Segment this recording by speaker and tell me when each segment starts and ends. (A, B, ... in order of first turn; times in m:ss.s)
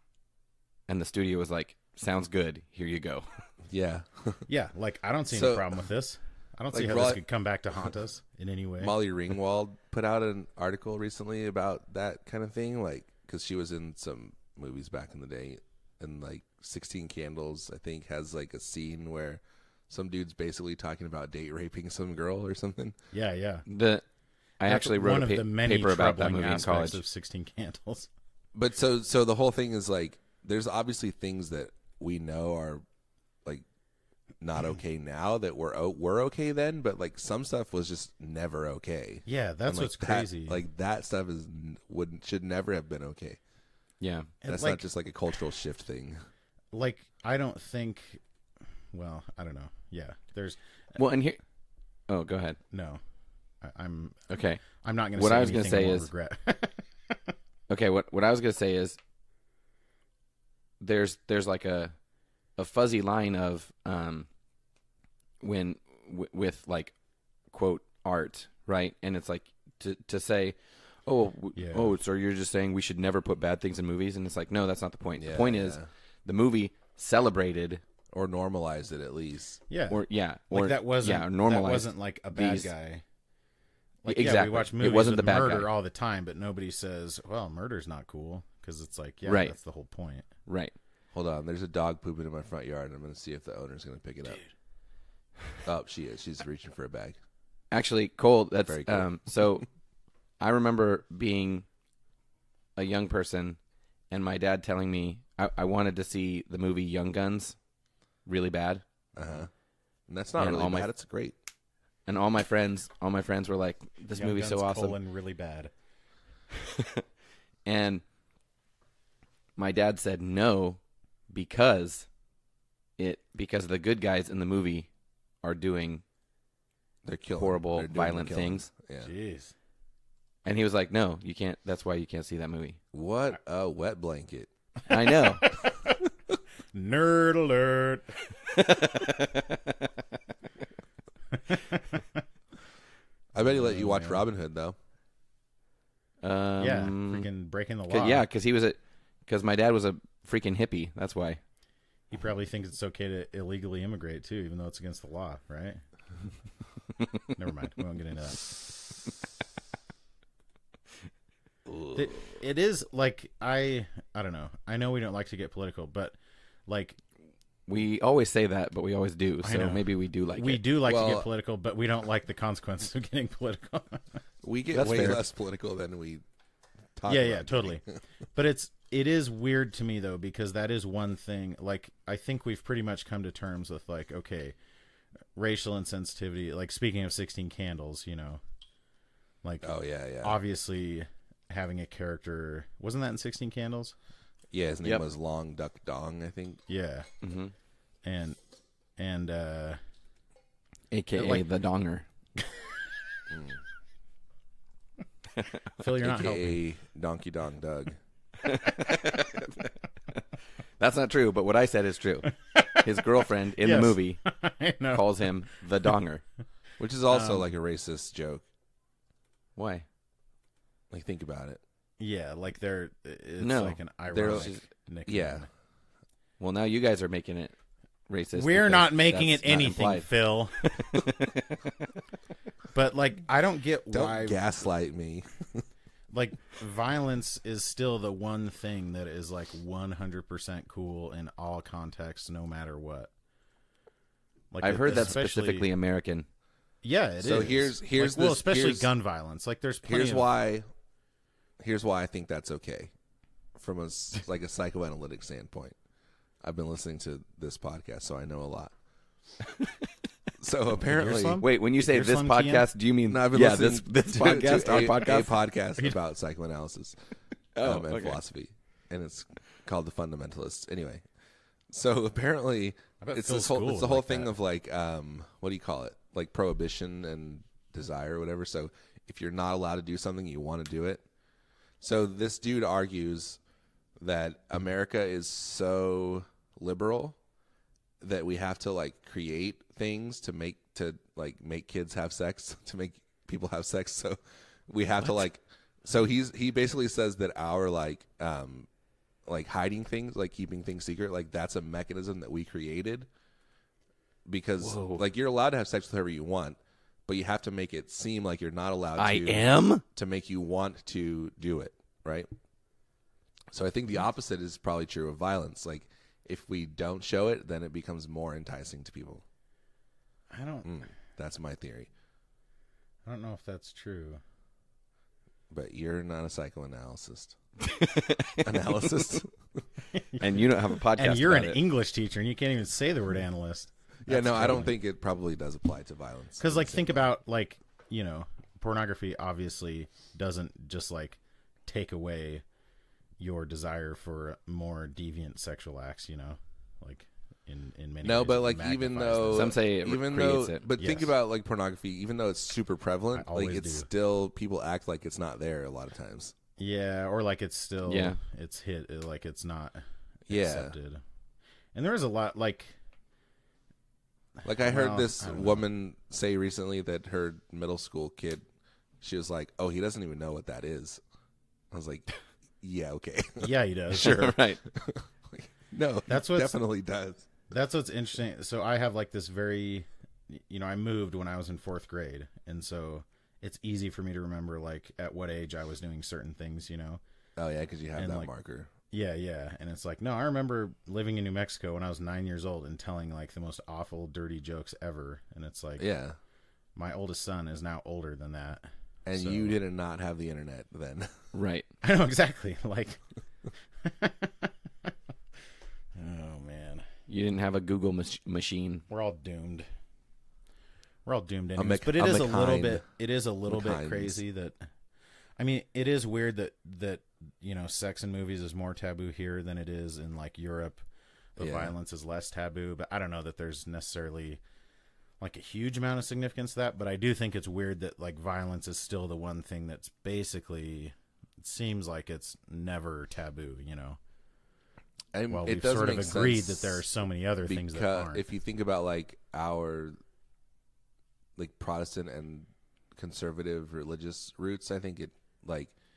0:00.9-0:03.4 A
0:03.7-0:04.4 B
0:04.5-0:08.9 C
0:05.3-0:05.8 B
0:06.7-0:07.2 B
0:08.8-0:23.0 B
0:23.1-0:23.6 C
0:23.7-0:24.0 A
0:24.6-0:27.0 A
0:24.6-0:28.1 C
0:28.5-0:32.8 B
0:34.4-0:43.4 B
0:39.2-0:40.6 C
0:44.0-0:44.3 A
0:44.4-0:44.8 C
0:44.5-0:46.2 B
0:46.7-0:48.2 C
0:48.9-0:50.6 C
0:51.0-0:51.4 A
0:52.1-0:52.6 A
0:52.7-0:53.0 C
0:53.6-0:57.3 C
0:54.3-0:54.6 A
0:55.2-0:56.1 A
0:57.7-0:59.0 A
1:00.8-1:01.9 A
1:02.6-1:04.3 A
1:05.4-1:06.9 A
1:07.5-1:17.8 A
1:11.5-1:12.0 C
1:15.2-1:15.9 B
1:18.1-1:19.6 B
1:19.7-1:23.0 C
1:19.9-1:22.7 A
1:24.0-1:30.3 C
1:24.1-1:25.7 A
1:29.2-1:29.5 A
1:30.4-1:30.7 A
1:31.1-1:34.4 B
1:35.6-1:37.2 B
1:37.7-1:39.6 A
1:38.6-1:39.1 B
1:40.4-1:41.6 A
1:42.8-1:43.6 A
1:44.1-1:47.6 A
1:48.2-1:48.8 A
1:49.2-1:49.5 B
1:50.1-1:51.3 B
1:50.4-1:50.9 A
1:52.1-1:55.0 A
1:54.1-1:55.7 C
1:56.6-1:57.0 A
1:57.6-1:58.0 A
1:59.6-2:00.8 A
2:01.3-2:02.1 A
2:03.0-2:04.9 A
2:05.4-2:06.0 A
2:07.0-2:09.1 B
2:07.4-2:08.7 A
2:09.0-2:09.5 C
2:10.4-2:12.8 A
2:12.9-2:14.5 B
2:14.9-2:15.5 A
2:15.2-2:15.9 C
2:16.7-2:18.2 C
2:18.5-2:19.8 A
2:21.3-2:22.2 C
2:23.3-2:24.8 B
2:23.4-2:24.2 C
2:26.2-2:27.3 A
2:26.6-2:28.2 C
2:27.9-2:31.4 A
2:32.1-2:35.8 C
2:37.3-2:38.4 C
2:41.7-2:42.1 B
2:41.9-2:47.0 C
2:47.7-2:50.6 A
2:49.4-2:54.2 C
2:50.8-2:51.3 B
2:54.4-2:56.2 B
2:54.7-2:55.2 A
2:54.8-2:55.2 C
2:57.0-2:57.9 B
2:57.1-2:57.8 C
2:58.3-3:04.6 C
3:05.3-3:08.4 C
3:09.4-3:09.7 C
3:09.6-3:10.4 B
3:10.2-3:13.9 C
3:14.5-3:16.6 B
3:16.7-3:17.1 C
3:17.2-3:17.5 A
3:18.0-3:18.4 C
3:19.0-3:19.8 C
3:20.9-3:22.0 A
3:21.1-3:21.4 C
3:22.4-3:22.7 C
3:23.3-3:23.6 B
3:25.8-3:26.6 C
3:26.0-3:28.0 B
3:28.4-3:30.2 A
3:30.8-3:34.2 A
3:32.4-3:33.0 C
3:33.6-3:35.3 C
3:34.9-3:36.2 A
3:36.8-3:38.4 B
3:37.1-3:37.4 C
3:39.6-3:39.8 A
3:40.9-3:41.6 B
3:42.0-3:45.5 C
3:43.4-3:44.6 A
3:44.1-3:44.5 B
3:45.1-3:45.4 B
3:46.4-3:47.5 A
3:48.1-3:51.9 A
3:48.3-3:50.7 C
3:52.7-3:54.4 C
3:53.9-3:55.6 B
3:56.1-4:03.1 C
4:04.5-4:05.7 C
4:04.6-4:06.2 A
4:06.8-4:10.3 C
4:07.2-4:08.9 B
4:09.8-4:10.7 B
4:11.6-4:12.9 B
4:13.6-4:15.8 B
4:16.4-4:18.7 B
4:20.4-4:21.4 B
4:20.8-4:22.7 C
4:21.4-4:25.3 A
4:23.1-4:27.0 B
4:27.6-4:28.2 A
4:27.6-4:31.0 B
4:31.7-4:41.0 B
4:33.0-4:34.3 C
4:41.8-4:43.4 B
4:44.0-4:47.2 B
4:48.0-4:58.7 B
4:55.0-4:55.2 A
4:59.2-5:03.1 B
5:04.2-5:12.3 B
5:04.6-5:05.0 A
5:09.0-5:09.8 A
5:13.5-5:19.2 B
5:20.3-5:20.7 C
5:20.6-5:21.9 B
5:23.0-5:24.2 C
5:25.5-5:27.4 B
5:27.6-5:28.8 A
5:28.4-5:29.3 B
5:29.9-5:34.7 C
5:30.2-5:31.6 A
5:34.0-5:37.0 B
5:36.4-5:42.4 C
5:43.2-5:49.6 C
5:48.0-5:56.3 B
5:49.3-5:50.6 A
5:50.8-5:51.1 C
5:53.1-5:53.9 C
5:56.6-6:01.0 C
5:57.8-5:58.2 A
6:00.3-6:00.7 B
6:01.7-6:02.8 C
6:04.4-6:08.4 B
6:04.6-6:05.6 C
6:09.0-6:11.0 B
6:11.7-6:12.1 B
6:12.6-6:17.3 B
6:13.4-6:14.3 C
6:14.0-6:14.6 A
6:16.1-6:16.6 C
6:17.5-6:27.0 C
6:27.4-6:28.7 B
6:28.0-6:28.3 C
6:28.9-6:35.8 C
6:35.8-6:36.2 B
6:36.8-6:39.6 C
6:39.0-6:41.1 B
6:41.3-6:41.6 A
6:41.8-6:43.0 C
6:43.8-6:44.9 C
6:45.9-6:46.9 C
6:47.1-6:48.8 A
6:48.9-6:49.7 C
6:51.0-6:54.6 C
6:51.6-6:52.8 B
6:53.5-6:54.2 B
6:55.4-7:00.8 C
7:01.4-7:01.7 B
7:01.4-7:04.4 C
7:05.2-7:14.0 C
7:15.1-7:16.8 B
7:15.3-7:18.2 C
7:17.5-7:20.0 B
7:21.4-7:25.7 B